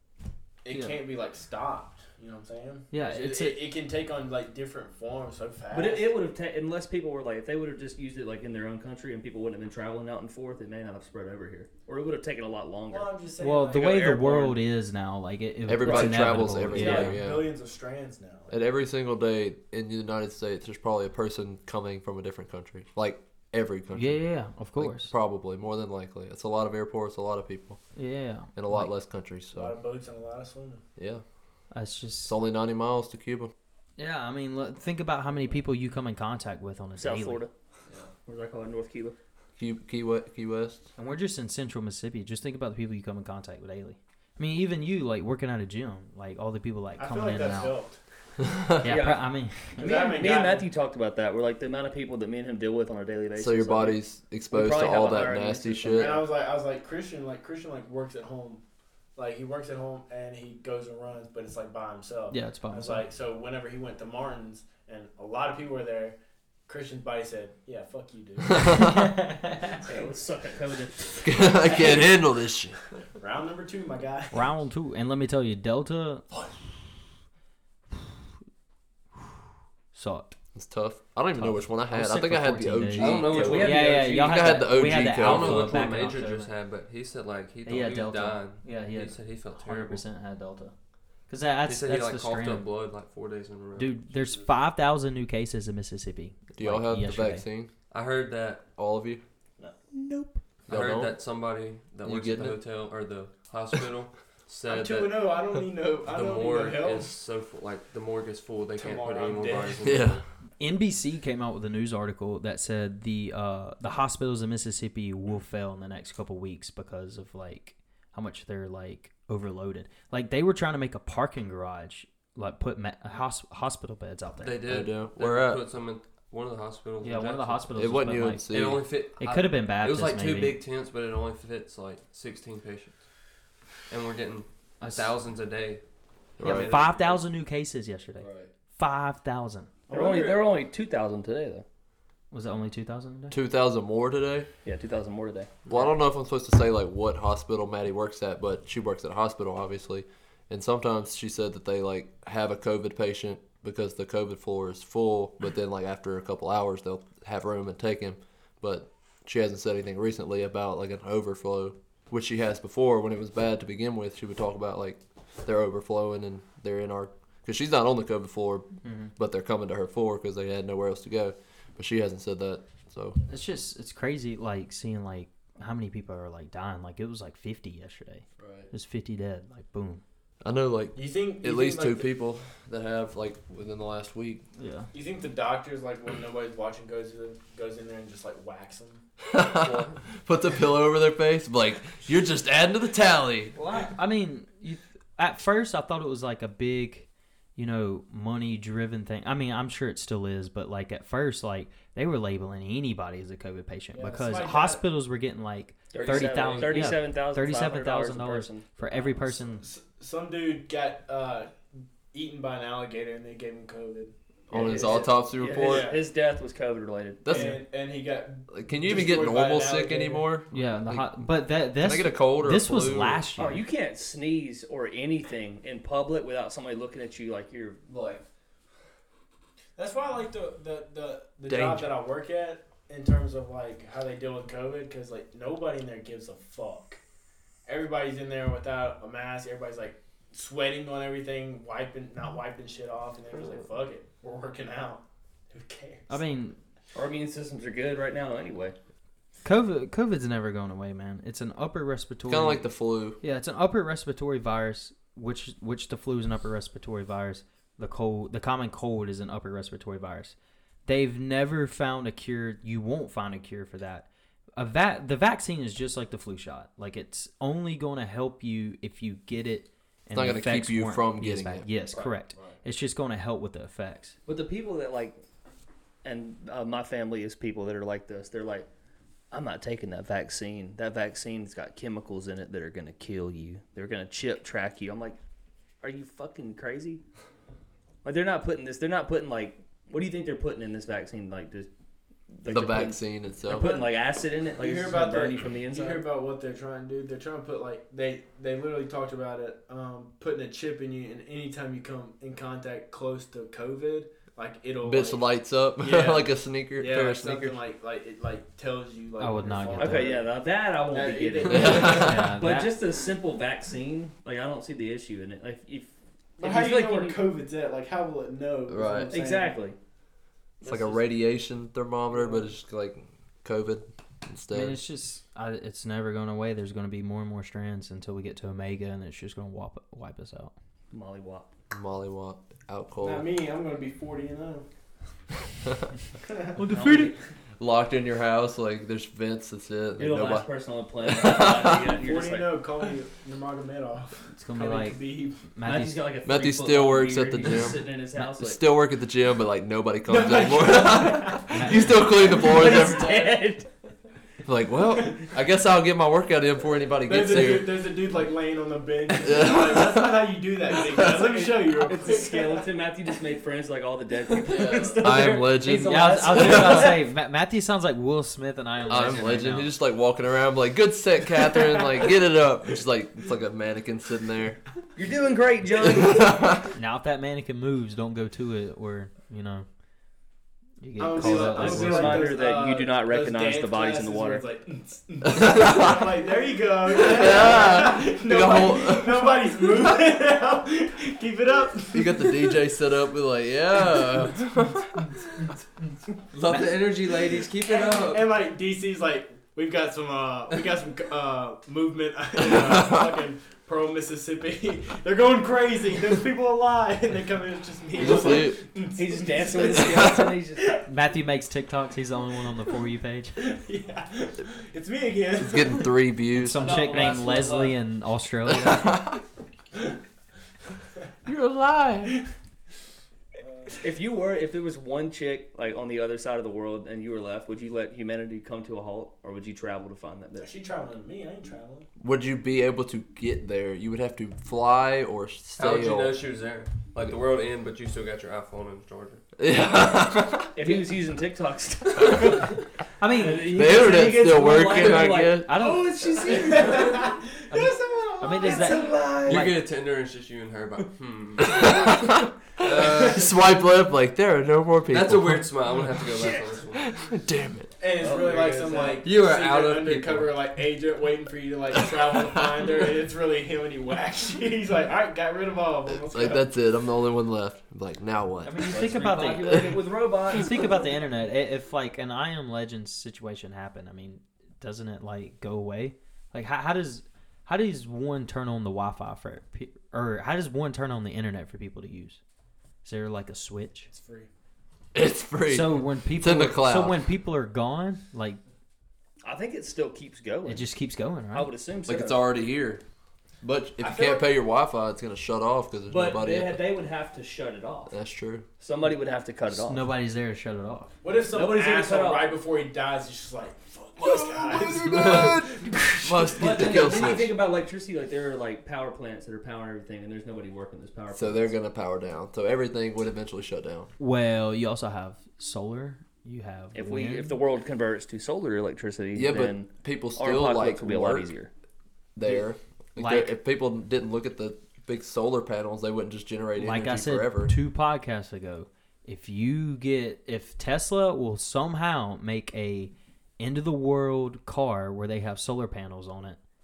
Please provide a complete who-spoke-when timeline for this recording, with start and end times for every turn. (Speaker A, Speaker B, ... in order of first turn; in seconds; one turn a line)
Speaker A: 0.6-6.2
Speaker B: 0.7-1.0
Speaker B: 2.9-3.6
Speaker C: 5.7-13.1
Speaker A: 12.9-14.0
Speaker B: 13.4-17.2
Speaker C: 13.7-14.6
Speaker D: 15.7-17.5
Speaker C: 15.8-17.2
Speaker A: 16.7-18.6
Speaker D: 18.5-27.8
Speaker B: 23.9-25.1
Speaker B: 27.9-28.9
Speaker D: 28.6-29.8
Speaker A: 29.5-30.8
Speaker D: 31.0-31.2
Speaker B: 31.7-32.4
Speaker D: 32.2-33.5
Speaker B: 34.0-37.4
Speaker C: 37.0-37.5
Speaker C: 38.3-39.1
Speaker D: 39.6-40.9
Speaker B: 41.0-47.8
Speaker A: 47.0-48.0
Speaker B: 48.8-49.8
Speaker C: 48.8-49.3
Speaker A: 49.8-50.7
Speaker C: 49.8-56.2
Speaker D: 53.4-56.2
Speaker A: 55.9-58.6
Speaker A: 59.1-68.9
Speaker B: 62.3-63.0
Speaker D: 68.6-68.9
Speaker B: 68.7-69.7
Speaker A: 69.8-70.2
Speaker C: 69.8-71.8
Speaker D: 71.2-72.8
Speaker A: 71.7-72.0
Speaker A: 73.2-74.5
Speaker B: 74.3-76.5
Speaker B: 79.9-80.4
Speaker D: 80.5-85.9
Speaker B: 81.4-86.5
Speaker E: 83.0-90.0
Speaker C: 83.3-84.3
Speaker B: 87.6-90.7
Speaker B: 91.3-92.7
Speaker E: 91.6-94.0
Speaker B: 93.8-97.5
Speaker D: 96.5-97.7
Speaker E: 97.9-98.6
Speaker D: 98.8-99.2
Speaker A: 99.9-100.4
Speaker D: 100.7-101.1
Speaker E: 100.7-105.4
Speaker D: 102.0-102.6
Speaker A: 104.7-107.1
Speaker E: 106.0-110.3
Speaker A: 108.8-109.8
Speaker D: 109.8-110.2
Speaker B: 110.6-124.7
Speaker E: 124.4-127.8
Speaker D: 124.7-125.6
Speaker B: 127.0-128.4
Speaker D: 127.7-128.8
Speaker E: 128.5-133.0
Speaker B: 129.2-130.6
Speaker E: 133.9-135.8
Speaker B: 134.8-135.1
Speaker D: 136.4-136.8
Speaker E: 136.4-137.2
Speaker B: 136.4-139.7
Speaker D: 138.2-138.5
Speaker A: 139.9-140.6
Speaker C: 139.9-141.6
Speaker B: 142.3-143.4
Speaker D: 143.3-144.5
Speaker C: 144.6-145.9
Speaker D: 145.7-173.2
Speaker B: 168.8-169.1
Speaker B: 173.3-180.0
Speaker D: 178.4-178.7
Speaker D: 180.4-184.4
Speaker A: 180.9-182.1
Speaker B: 184.6-184.9
Speaker A: 184.9-189.0
Speaker D: 189.3-193.6
Speaker E: 189.6-189.9
Speaker B: 193.6-209.6
Speaker A: 203.9-204.8
Speaker C: 205.9-208.8
Speaker A: 206.0-206.8
Speaker A: 209.6-216.1
Speaker D: 214.5-215.9
Speaker C: 214.5-217.5
Speaker D: 217.2-217.6
Speaker A: 217.3-220.2
Speaker D: 218.5-221.2
Speaker B: 220.5-223.6
Speaker D: 221.8-223.3
Speaker C: 223.4-227.9
Speaker D: 227.9-228.2
Speaker A: 229.8-237.0
Speaker D: 231.5-231.9
Speaker A: 237.7-246.2
Speaker B: 246.1-246.6
Speaker C: 246.9-248.8
Speaker B: 249.4-274.1
Speaker D: 252.3-253.2
Speaker D: 270.1-271.7
Speaker C: 271.9-272.2
Speaker C: 274.3-275.2
Speaker C: 276.0-278.7
Speaker C: 279.3-285.2
Speaker C: 285.8-287.0
Speaker C: 288.0-291.7
Speaker C: 292.3-296.1
Speaker D: 292.4-293.8
Speaker A: 293.5-293.9
Speaker A: 294.5-312.2
Speaker D: 304.8-307.6
Speaker B: 309.2-310.2
Speaker C: 309.8-317.3
Speaker D: 311.4-312.3
Speaker B: 311.6-312.8
Speaker A: 316.4-319.6
Speaker D: 318.7-319.2
Speaker C: 319.1-319.8
Speaker C: 320.6-321.0
Speaker D: 320.6-324.8
Speaker A: 322.1-322.4
Speaker B: 324.5-330.5
Speaker C: 330.9-331.5
Speaker D: 331.7-333.3
Speaker A: 333.0-334.6
Speaker A: 336.3-336.6
Speaker B: 336.6-337.1
Speaker C: 336.6-337.2
Speaker D: 337.6-340.5
Speaker C: 340.0-342.6
Speaker D: 341.0-341.8
Speaker A: 341.7-345.5
Speaker B: 344.3-346.1
Speaker C: 345.6-348.6
Speaker D: 346.2-353.2
Speaker A: 350.1-353.4
Speaker B: 351.5-351.9
Speaker C: 352.2-353.7
Speaker D: 354.4-357.9
Speaker A: 357.0-362.7
Speaker D: 359.2-361.2
Speaker C: 361.0-367.0
Speaker E: 364.5-365.0
Speaker D: 365.0-367.0
Speaker B: 365.5-369.7
Speaker D: 368.9-374.6
Speaker C: 374.9-376.6
Speaker D: 375.9-376.6
Speaker B: 376.7-379.6
Speaker B: 380.8-382.3
Speaker A: 381.0-392.6
Speaker C: 381.2-384.4
Speaker D: 385.2-386.1
Speaker D: 386.9-390.0
Speaker D: 391.9-395.5
Speaker E: 396.3-398.3
Speaker A: 397.6-410.8
Speaker D: 402.4-403.1
Speaker D: 407.9-408.6
Speaker C: 408.0-408.4
Speaker C: 408.9-410.8
Speaker D: 409.6-410.3
Speaker B: 410.9-413.4
Speaker A: 413.4-416.0
Speaker D: 415.3-416.8
Speaker B: 416.3-419.0
Speaker C: 416.6-417.8
Speaker D: 418.5-419.2
Speaker D: 421.3-422.1
Speaker A: 423.4-423.8
Speaker C: 423.8-430.5
Speaker A: 430.4-431.9
Speaker D: 432.0-436.2
Speaker E: 435.6-439.2
Speaker D: 439.4-440.5
Speaker C: 440.5-442.5
Speaker B: 443.0-444.1
Speaker C: 443.1-447.1
Speaker D: 443.4-445.6
Speaker E: 444.7-445.2
Speaker B: 445.4-446.0
Speaker A: 445.5-449.3
Speaker B: 447.5-449.6
Speaker C: 448.4-449.4
Speaker E: 449.3-453.4
Speaker D: 451.4-457.7
Speaker A: 452.8-453.2
Speaker E: 454.9-456.8
Speaker A: 456.1-456.6
Speaker A: 457.8-466.5
Speaker C: 458.0-459.0
Speaker E: 459.0-460.4
Speaker D: 465.9-469.7
Speaker B: 468.4-469.8
Speaker C: 468.6-470.9
Speaker B: 470.3-482.2
Speaker B: 482.8-483.9
Speaker A: 483.9-484.3
Speaker D: 484.9-487.1
Speaker B: 485.5-488.4
Speaker C: 489.2-490.7
Speaker B: 490.4-491.5
Speaker C: 491.3-492.2
Speaker D: 491.9-492.8
Speaker D: 493.4-496.6
Speaker A: 493.8-494.3
Speaker C: 495.9-497.9
Speaker D: 497.9-498.4
Speaker C: 498.6-499.9
Speaker B: 499.5-500.9
Speaker A: 501.0-505.9
Speaker C: 501.3-502.4
Speaker D: 504.0-507.3
Speaker B: 505.7-506.7
Speaker C: 506.3-511.5
Speaker D: 511.1-513.9
Speaker B: 514.0-517.4
Speaker C: 516.7-521.5
Speaker D: 519.1-521.3
Speaker D: 522.1-527.5
Speaker B: 523.0-523.3
Speaker B: 526.5-536.4